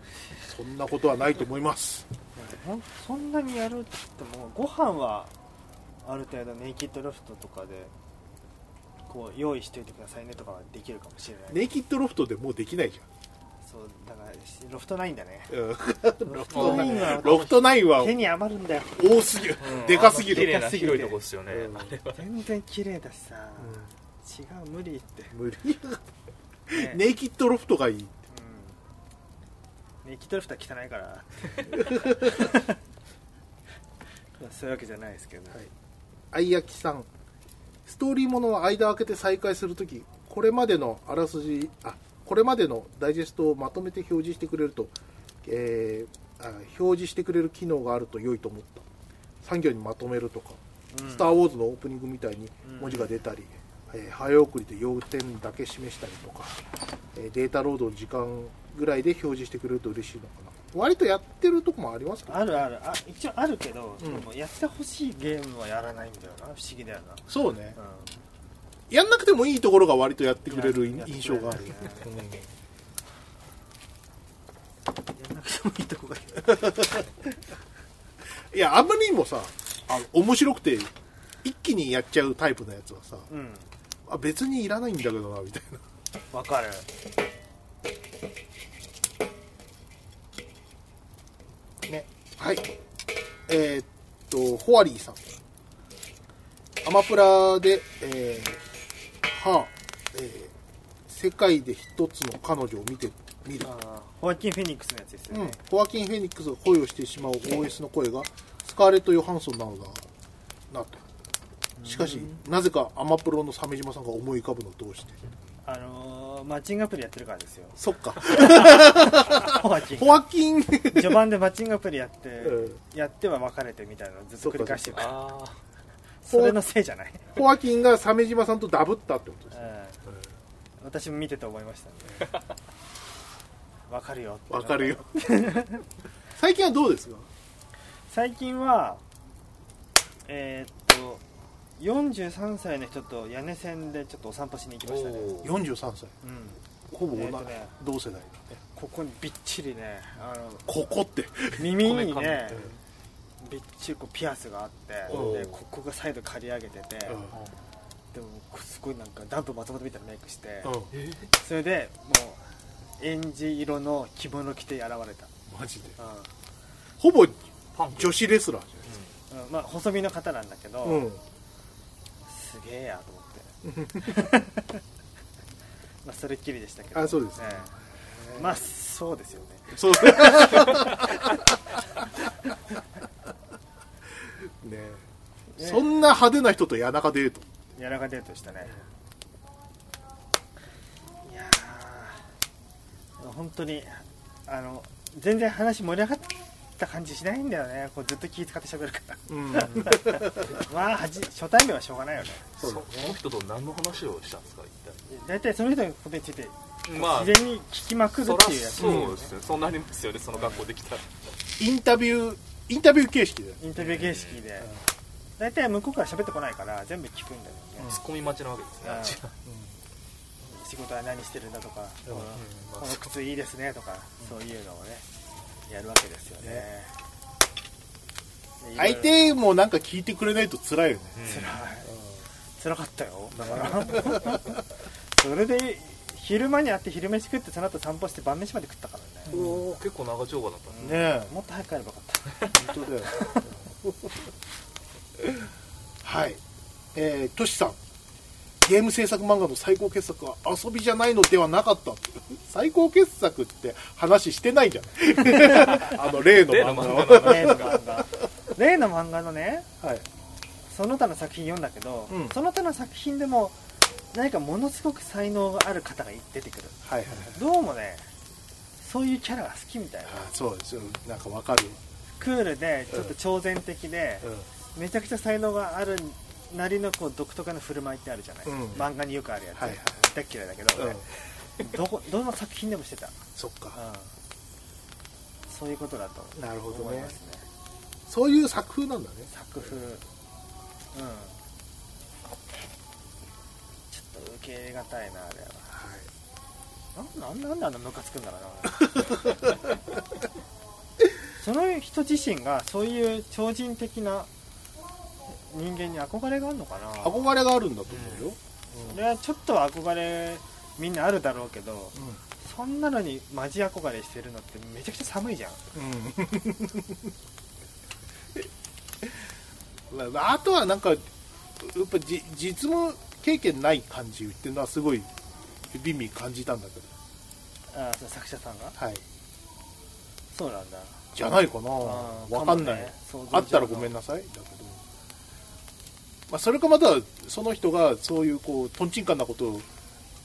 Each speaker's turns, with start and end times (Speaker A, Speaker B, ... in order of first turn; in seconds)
Speaker A: 0.4-2.1, 11.5-13.1, 15.5-18.2, 19.0-20.6, 21.5-21.9, 23.6-23.9, 25.3-26.0, 26.7-28.2, 31.7-32.4, 36.3-37.1, 37.9-44.9, 45.4-48.9, 49.4-56.6, 57.1-62.6, 64.0-64.3, 67.3-67.8, 68.9-72.5, 76.4-77.1, 78.5-80.9, 81.4-83.3, 84.1-85.8, 91.9-92.7, 93.5-95.2, 96.8-98.6, 99.3-100.5, 101.1-103.7, 105.3-110.1, 110.7-111.0, 111.8-115.2, 117.8-121.2, 122.4-122.8, 124.4-125.1, 126.3-126.6, 127.3-130.1, 134.5-135.2, 136.4-137.3, 145.4-146.1, 146.9-148.6, 150.7-151.6, 155.1-155.5, 157.1-157.4, 160.6-160.9, 165.5-166.0, 167.0-168.9, 170.8-171.2, 173.6-174.3, 176.9-178.6, 179.7-181.5, 184.6-185.0, 185.6-187.5, 199.3-200.6, 202.6-203.2, 208.8-209.2, 211.6-213.6, 219.4-219.7, 228.8-231.2, 233.3-234.6, 239.3-239.7, 240.8-241.3, 242.5-244.3, 246.0-246.4, 246.9-247.8, 248.6-257.8, 262.1-262.4, 266.8-267.4, 270.1-271.8, 278.4-278.9, 279.6-279.9, 280.7-281.1, 283.4-283.8, 286.4-287.2, 288.1-289.3, 295.7-296.1, 298.8-299.7, 307.0-309.0, 311.9-312.2, 315.7-317.1, 319.9-321.0, 321.6-325.1, 325.7-326.9, 328.8-329.0, 331.1-334.8, 336.3-339.7
Speaker B: 2.4-5.3, 6.0-7.9, 9.1-11.7, 13.6-15.6, 16.2-19.0, 19.9-21.2, 22.1-25.3, 26.7-27.0, 28.3-28.8, 30.0-32.8, 34.4-35.6, 50.9-51.3, 52.6-53.1, 62.3-68.2, 70.5-72.2, 75.2-77.0, 83.3-83.7, 86.3-86.9, 103.6-105.6, 111.8-112.4, 115.7-120.2, 120.9-125.2, 126.2-127.4, 129.5-130.0, 130.8-132.3, 133.9-135.8, 138.1-139.0, 140.3-141.2, 141.8-145.5, 146.2-146.6, 147.1-147.7, 148.7-150.7, 151.6-152.7, 153.4-157.2, 158.1-160.8, 161.4-162.4, 163.0-165.3, 166.0-166.3, 169.3-171.1, 172.3-174.8, 176.0-177.7, 178.3-181.4, 185.6-185.9, 187.8-188.8, 191.2-192.2, 193.2-202.4, 205.1-209.3, 210.3-210.7, 213.6-214.7, 215.4-218.0, 218.8-219.2, 220.4-225.1, 225.7-226.9, 228.6-229.3, 231.2-231.9, 232.6-234.6, 235.1-239.4, 240.7-243.4, 257.1-259.7, 260.7-263.6, 264.1-268.1, 268.8-270.3, 272.2-281.1, 281.6-283.2, 283.7-284.1, 285.5-287.5, 289.3-290.0, 290.9-291.4, 293.9-295.7, 296.9-299.2, 301.4-304.3, 305.3-307.3, 308.8-315.6, 327.7-328.8, 330.3-331.1, 331.8-333.9
Speaker C: 16.5-17.3, 19.6-22.2, 124.9-125.6, 144.8-145.5, 151.7-152.7, 155.1-155.4, 160.9-161.3, 167.8-168.2, 202.6-205.0, 206.9-207.5, 208.1-211.1, 213.8-214.4, 217.8-219.3, 222.3-223.1, 231.2-231.6, 239.3-240.8, 255.7-257.8, 307.9-308.3